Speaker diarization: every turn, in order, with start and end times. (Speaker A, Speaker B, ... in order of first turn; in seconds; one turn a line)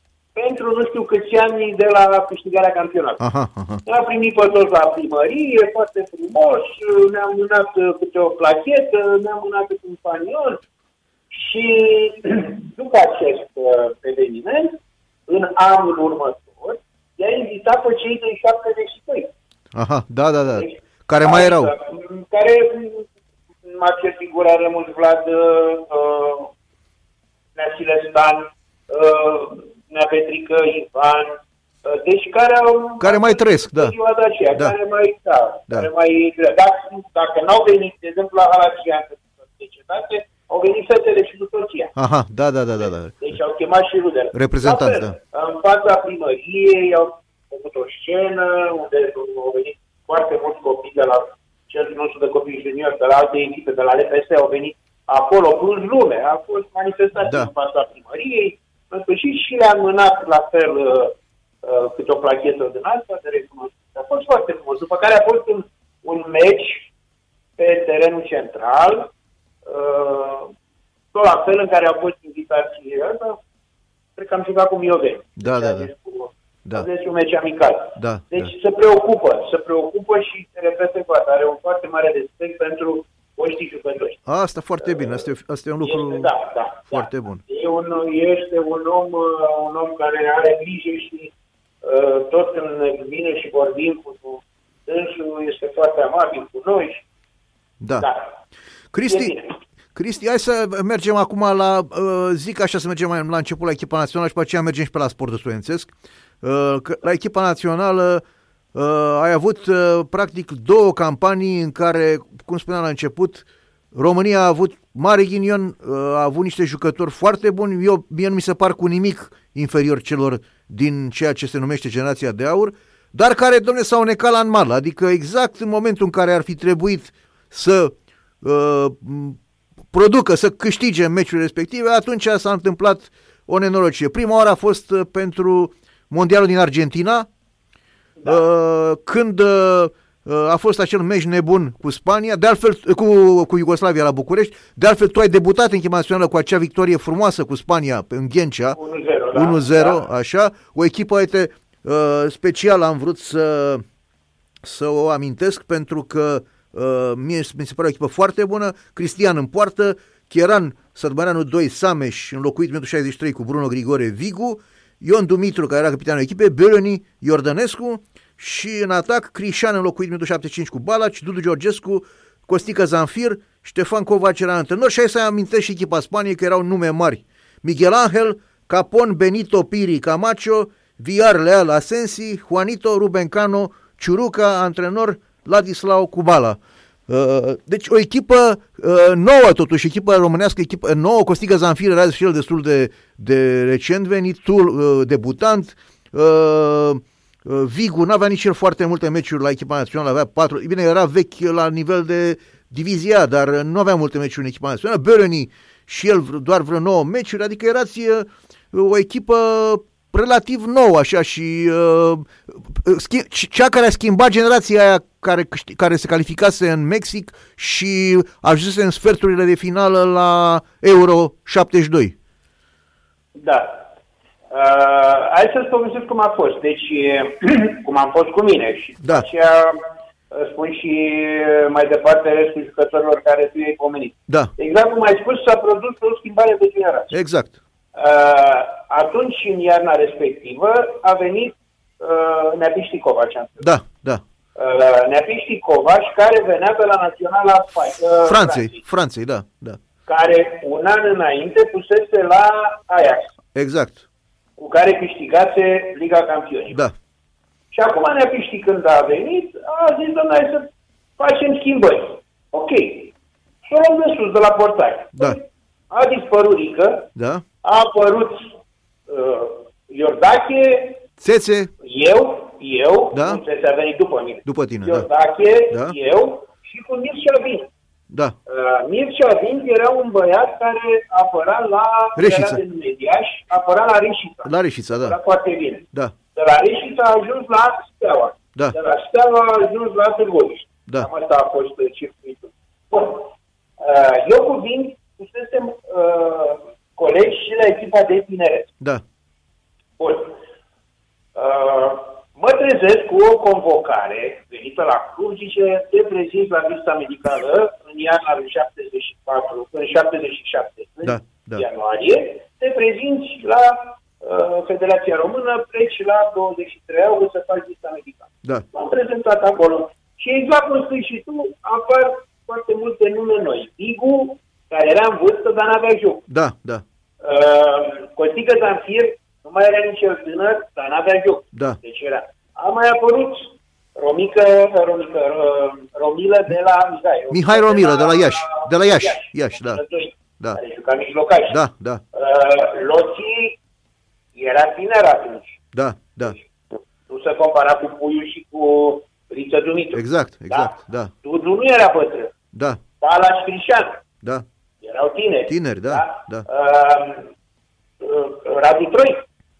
Speaker A: 0.3-3.2
Speaker B: 3.2-3.8
Speaker A: 3.8-10.6
Speaker A: 11.3-19.3
Speaker B: 19.7-21.7
Speaker A: 20.5-23.1
Speaker A: 23.6-26.5
Speaker A: 27.6-41.9
Speaker B: 33.0-33.9
Speaker B: 42.0-43.2
Speaker A: 43.2-66.9
Speaker B: 44.3-45.1
Speaker B: 57.2-57.5
Speaker A: 67.6-69.1
Speaker A: 69.6-70.5
Speaker A: 71.1-73.4
Speaker A: 74.2-84.2
Speaker B: 75.4-75.9
Speaker B: 78.0-78.5
Speaker B: 84.2-86.3
Speaker A: 84.8-85.2
Speaker A: 85.8-91.3
Speaker B: 86.9-87.4
Speaker A: 91.8-97.0
Speaker B: 97.8-98.1
Speaker A: 98.0-98.3
Speaker B: 98.9-99.3
Speaker A: 99.1-99.5
Speaker B: 99.9-105.9
Speaker B: 106.4-108.2
Speaker B: 108.7-129.4
Speaker B: 129.9-137.3
Speaker B: 138.2-148.8
Speaker A: 148.7-150.0
Speaker B: 149.3-153.8
Speaker B: 154.6-222.1
Speaker A: 223.3-223.8
Speaker A: 224.5-229.8
Speaker A: 230.3-237.1
Speaker B: 237.1-237.5
Speaker A: 237.9-243.7
Speaker B: 243.6-244.2
Speaker A: 244.6-248.8
Speaker B: 248.2-249.8
Speaker A: 250.1-253.3
Speaker B: 253.5-254.0
Speaker A: 254.6-256.8
Speaker A: 257.7-263.1
Speaker A: 263.7-267.1
Speaker B: 267.1-267.4
Speaker A: 267.6-268.5
Speaker A: 269.1-271.0
Speaker B: 271.2-271.7
Speaker A: 271.8-277.7
Speaker B: 273.1-273.4
Speaker B: 274.4-275.1
Speaker B: 278.1-278.3
Speaker A: 278.5-298.7
Speaker B: 282.2-282.6
Speaker B: 284.4-285.1
Speaker A: 300.0-300.4
Speaker A: 301.3-326.2
Speaker B: 311.0-311.6
Speaker B: 326.3-326.8
Speaker A: 327.2-341.6
Speaker B: 337.3-339.8
Speaker B: 341.5-342.0
Speaker A: 342.1-343.6
Speaker A: 344.3-345.6
Speaker B: 345.7-346.4
Speaker A: 347.1-352.3
Speaker B: 349.9-351.1
Speaker B: 352.5-352.8
Speaker A: 353.0-354.0
Speaker A: 354.8-357.3
Speaker B: 355.5-356.4
Speaker A: 358.0-359.2